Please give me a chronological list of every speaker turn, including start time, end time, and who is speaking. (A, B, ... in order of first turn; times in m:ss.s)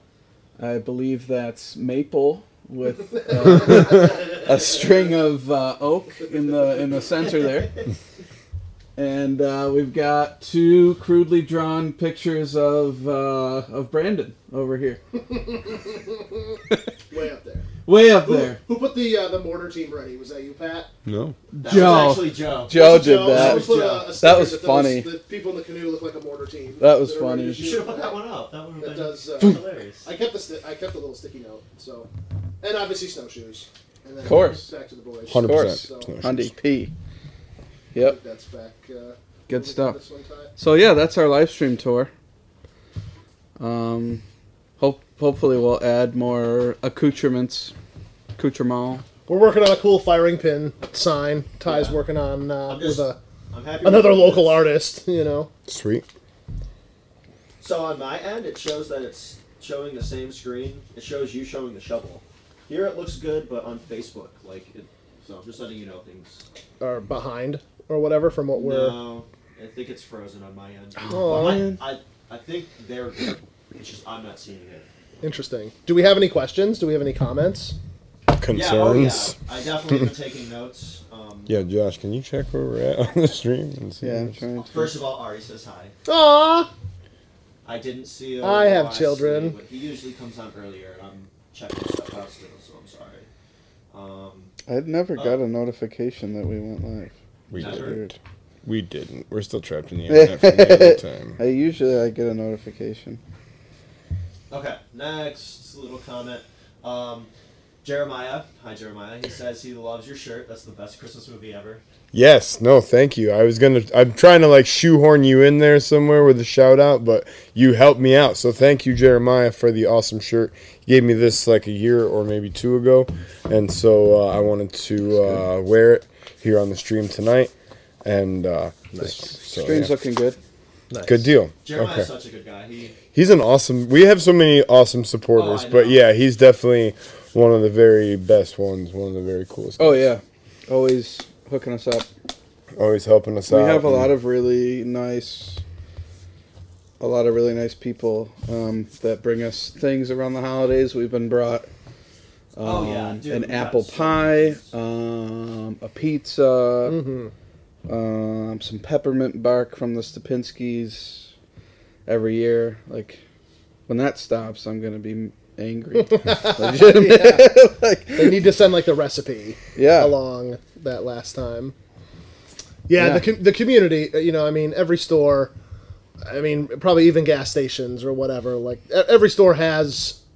0:00.6-0:07.8 A
0:03.2-0:04.3 B
0:09.0-0:15.0 A
0:15.1-0:17.7 B
0:17.8-0:18.6 A
0:18.2-0:20.9 B
0:21.0-0:21.4 C
0:21.6-0:25.1 A
0:21.6-0:24.1 D
0:21.6-0:22.0 B
0:22.7-0:28.2 B
0:26.8-0:27.8 A
0:27.5-0:30.1 D
0:28.8-0:32.1 B
0:32.6-0:36.1 B
0:34.2-0:34.7 A
0:35.3-0:36.5 C
0:35.3-0:36.9 A
0:37.9-0:40.5 B
0:39.5-0:40.0 A
0:40.6-0:42.1 A
0:43.6-0:44.2 A
0:44.8-0:47.7 A
0:48.4-0:49.0 A
0:49.3-0:53.2 B
0:51.6-0:52.0 D
0:52.7-0:54.6 D
0:53.8-0:55.5 B
0:55.7-0:56.0 C
0:57.6-1:06.4 D
1:06.8-1:09.0 B
1:08.5-1:14.9 D
1:11.0-1:11.8 A
1:11.1-1:11.7 B
1:15.2-1:17.8 B
1:18.4-1:19.3 C
1:18.5-1:21.6 D
1:21.5-1:24.4 C
1:24.0-1:24.9 A
1:24.7-1:25.9 D
1:26.0-1:26.7 B
1:27.6-1:33.3 D
1:28.4-1:29.6 B
1:33.9-1:34.5 D
1:34.7-1:38.1 A
1:37.5-1:41.4 C
1:37.5-1:38.0 D
1:40.1-1:43.2 A
1:44.5-1:47.3 D
1:47.8-1:51.8 D
1:52.1-2:07.5 C
2:08.0-2:09.9 C
2:09.5-2:10.4 A
2:10.9-2:11.3 B
2:11.0-2:12.1 C
2:11.6-2:13.0 D
2:13.1-2:20.1 C
2:15.3-2:16.0 D
2:19.8-2:22.1 A
2:22.8-2:24.1 C
2:23.5-2:25.6 A
2:27.0-2:31.7 A
2:32.6-2:34.7 D
2:32.6-2:37.0 A
2:36.8-2:37.3 B
2:37.9-2:41.3 A
2:42.0-2:43.2 A
2:43.9-2:48.4 A
2:46.1-2:47.6 B
2:48.1-2:51.7 B
2:49.8-2:50.1 A
2:52.9-2:55.5 B
2:53.0-2:53.2 A
2:56.2-3:00.2 B